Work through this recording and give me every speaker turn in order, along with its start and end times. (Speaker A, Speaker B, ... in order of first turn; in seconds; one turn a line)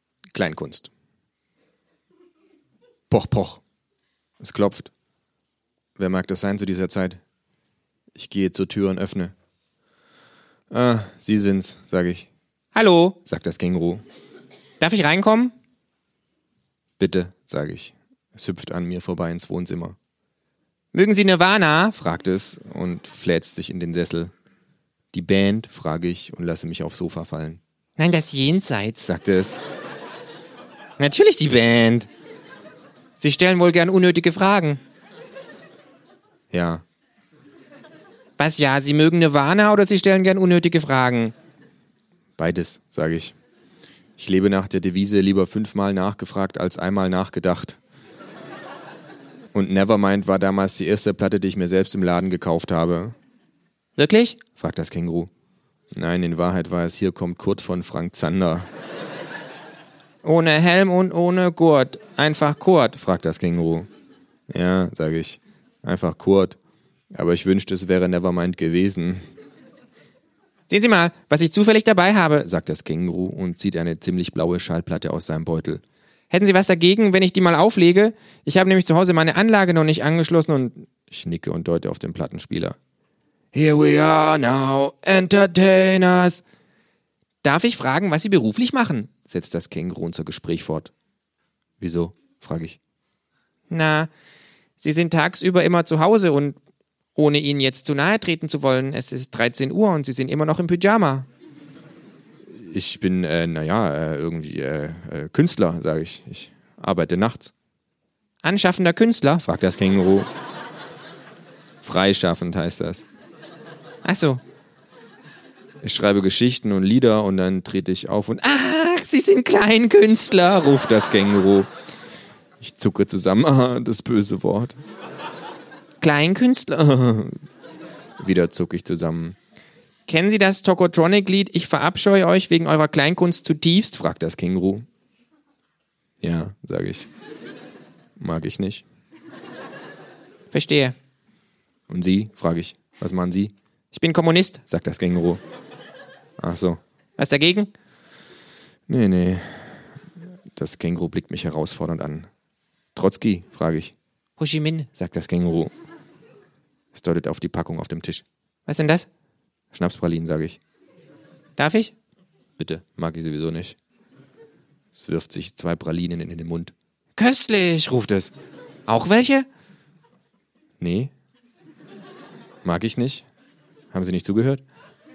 Speaker A: 0.3-0.9
Speaker A: 3.1-3.6
Speaker A: 4.4-4.9
Speaker A: 6.0-7.2
Speaker A: 8.1-9.3
Speaker A: 10.7-14.0
Speaker A: 14.8-15.5
Speaker A: 17.0-19.9
Speaker A: 20.9-24.3
Speaker A: 25.1-29.6
Speaker A: 31.0-32.1
Speaker A: 33.2-34.8
Speaker A: 36.5-36.8
Speaker A: 38.4-41.3
Speaker A: 42.4-43.4
Speaker A: 44.2-47.8
Speaker A: 49.5-53.1
Speaker A: 54.0-55.3
Speaker A: 55.9-58.7
Speaker A: 60.2-63.9
Speaker A: 64.5-66.6
Speaker A: 67.1-69.2
Speaker A: 70.7-82.8
Speaker A: 83.5-86.4
Speaker A: 87.4-90.9
Speaker A: 91.8-92.8
Speaker A: 93.7-94.1
Speaker A: 94.8-96.6
Speaker A: 97.2-101.2
Speaker A: 102.5-107.5
Speaker A: 108.4-110.3
Speaker A: 111.8-113.0
Speaker A: 114.0-114.4
Speaker A: 115.8-121.7
Speaker A: 122.6-124.8
Speaker A: 126.0-127.4
Speaker A: 128.2-129.4
Speaker A: 130.1-134.8
Speaker A: 136.2-137.1
Speaker A: 138.2-138.8
Speaker A: 140.5-140.9
Speaker A: 141.9-145.4
Speaker A: 146.4-147.7
Speaker A: 148.9-149.7
Speaker A: 150.5-152.3
Speaker A: 152.9-155.7
Speaker A: 156.9-159.1
Speaker A: 159.7-160.6
Speaker A: 161.6-161.9
Speaker A: 162.6-163.8
Speaker A: 164.9-168.3
Speaker A: 168.9-169.5
Speaker A: 170.8-171.1
Speaker A: 172.6-173.2
Speaker A: 173.9-174.6